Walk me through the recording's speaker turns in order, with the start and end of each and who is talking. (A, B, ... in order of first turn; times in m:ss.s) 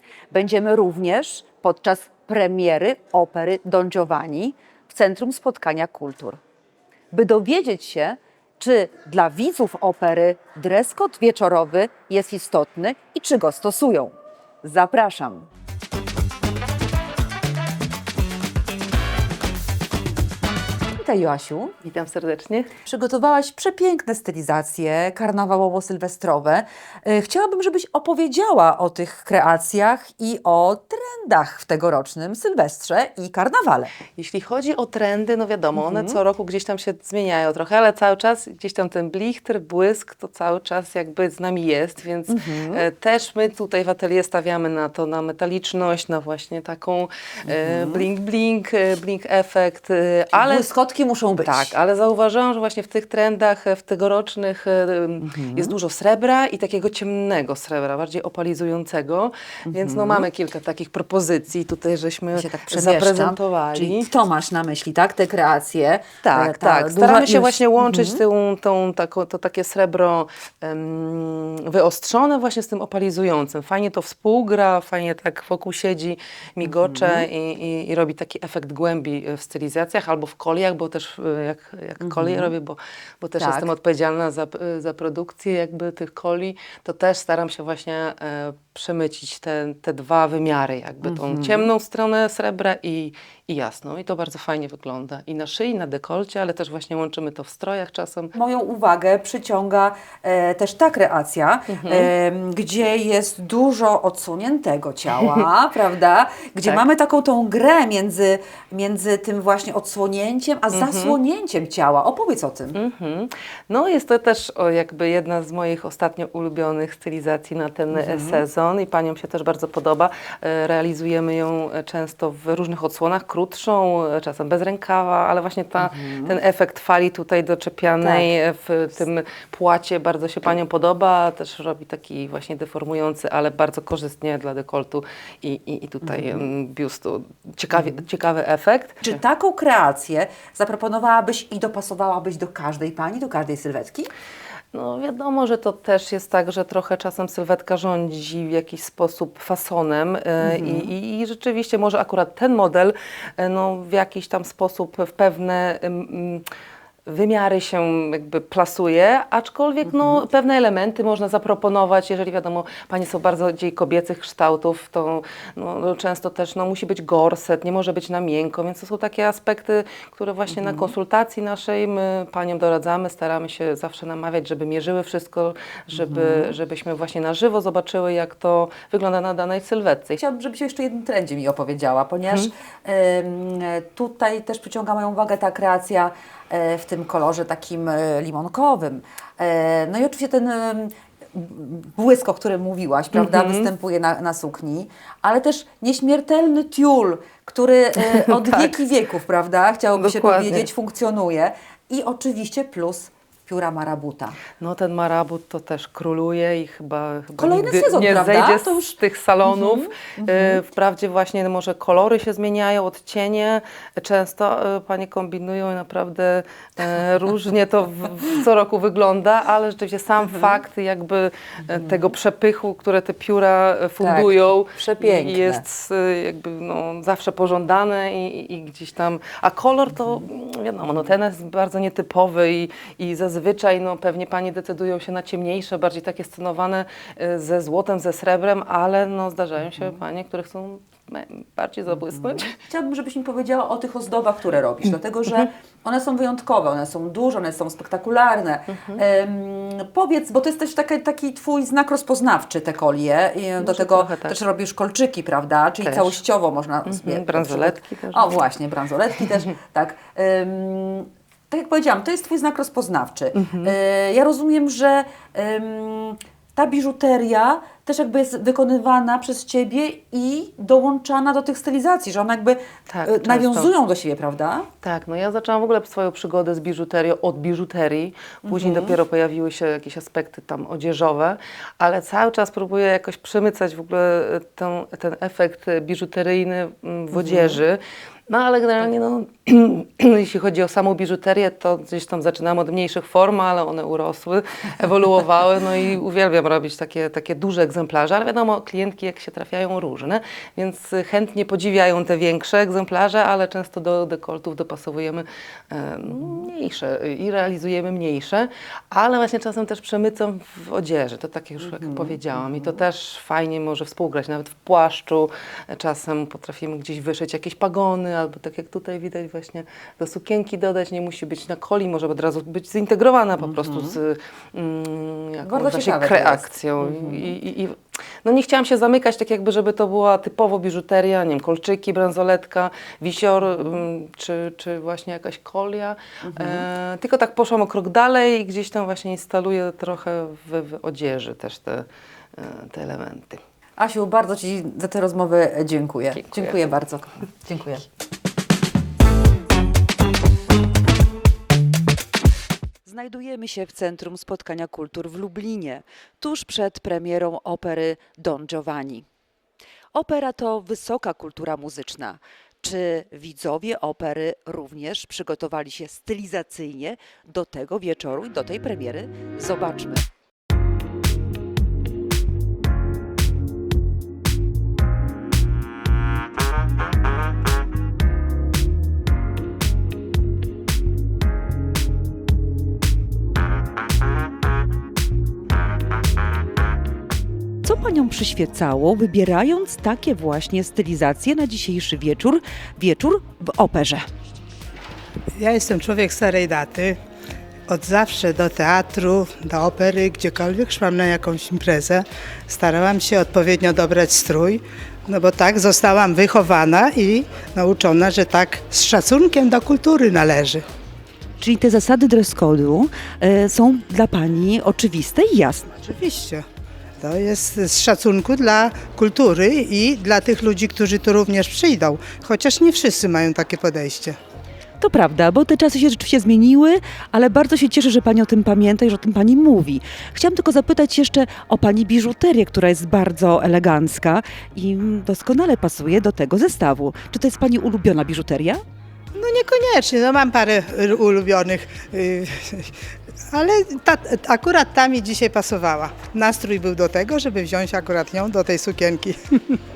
0:00.3-0:06.4 A
0:07.1-0:15.5 A
0:20.9-0:21.7 A
0:21.8-0:22.7 B
0:22.8-0:33.9 A
0:34.2-0:50.7 B
0:35.8-0:36.2 A
0:42.3-0:42.8 A
0:47.5-0:48.0 A
0:50.3-0:51.7 A
0:51.4-1:04.1 B
0:55.2-0:55.8 A
0:59.7-1:00.3 A
1:02.3-1:08.2 A
1:06.2-1:38.3 B
1:16.7-1:17.3 A
1:22.0-1:22.5 A
1:23.4-1:23.7 A
1:31.0-1:31.7 A
1:38.3-1:52.8 A
1:41.7-1:42.1 B
1:50.7-1:51.2 B
1:52.7-2:19.2 B
1:57.9-1:58.4 A
2:05.8-2:06.3 A
2:19.0-2:24.1 A
2:24.7-2:36.4 B
2:30.4-2:30.9 A
2:37.1-3:00.2 B
2:39.9-2:40.2 A
2:50.5-2:50.9 A
2:55.9-2:56.5 A
3:00.2-3:24.4 A
3:13.1-3:13.7 B
3:18.4-3:18.8 B
3:19.9-3:20.7 B
3:24.6-4:02.5 B
3:27.4-3:29.0 A
3:29.5-3:30.6 A
3:44.0-3:45.6 A
4:02.5-4:34.7 A
4:13.6-4:14.4 B
4:15.8-4:16.2 B
4:16.9-4:18.4 B
4:23.4-4:23.7 B
4:32.9-4:33.7 B
4:34.8-5:41.8 B
4:38.5-4:38.9 A
4:47.2-4:47.6 A
5:11.8-5:12.1 A
5:23.4-5:24.0 A
5:25.4-5:27.3 A
5:36.2-5:36.6 A
5:42.4-5:43.4 B
5:43.8-5:47.8 A
5:46.1-5:46.6 B
5:52.8-5:59.0 A
5:59.9-6:10.0 A
6:27.6-6:34.0 A
6:35.4-6:37.0 C
6:37.7-6:50.6 C
6:51.4-6:55.7 A
6:55.8-6:56.4 C
6:57.0-7:04.2 C
7:04.8-7:18.6 A
7:19.1-7:22.7 C
7:23.3-7:29.6 C